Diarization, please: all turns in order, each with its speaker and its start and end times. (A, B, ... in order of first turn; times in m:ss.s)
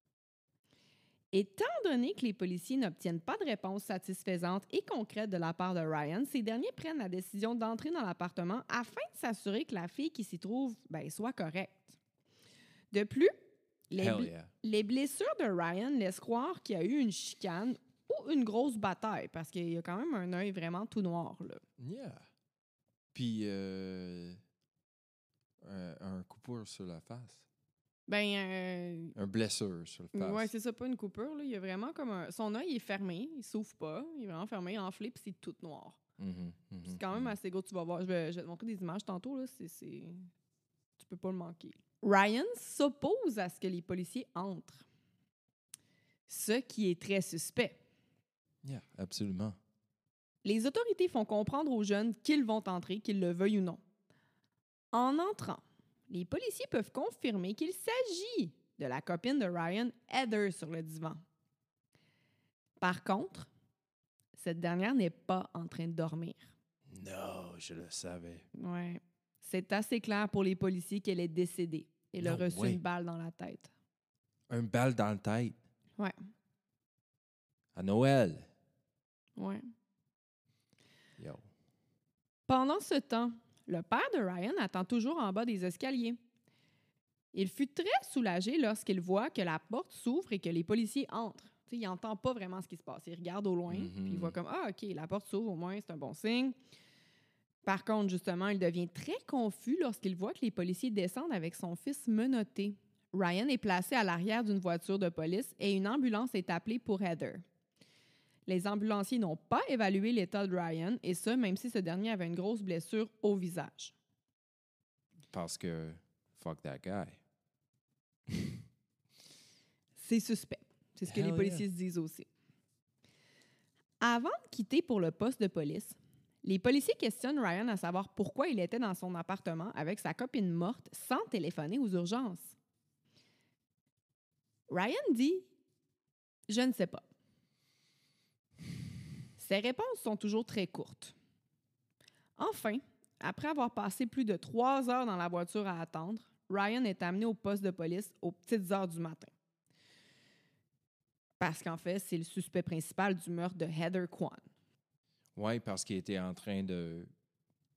0:01.3-0:12.0 A
0:12.9-0:13.4 A
0:13.9-0:21.6 A
0:14.0-0:14.5 B
0:21.8-0:22.3 B
0:23.1-0:24.4 B
0:25.6-0:27.4 B
0:28.1-0:29.1 A
0:29.1-0:30.5 B
0:30.1-0:36.0 A
0:36.2-0:37.3 B
0:36.8-0:40.3 A
0:41.0-0:44.8 A
0:46.3-0:47.8 A
0:48.6-0:49.6 B
0:50.4-0:53.8 A
0:54.9-1:01.2 A
1:02.8-1:03.5 A
1:04.4-1:06.5 A
1:06.9-1:08.5 B
1:08.6-1:13.7 A
1:12.2-1:12.8 B
1:14.5-1:15.6 B
1:17.7-1:18.5 B
1:19.4-1:19.6 A
1:21.2-1:21.5 B
1:22.5-1:26.2 A
1:27.3-1:36.6 A
1:33.7-1:34.4 B
1:37.6-1:47.4 A
1:48.5-1:53.9 A
1:55.3-1:57.2 B
1:58.3-1:58.6 B
2:00.0-2:02.3 A
2:01.0-2:01.6 B
2:04.0-2:12.5 A
2:14.7-2:15.5 A
2:16.5-2:17.0 A
2:19.4-2:21.1 A
2:22.4-2:29.3 A
2:31.4-2:34.4 A
2:35.3-2:37.1 B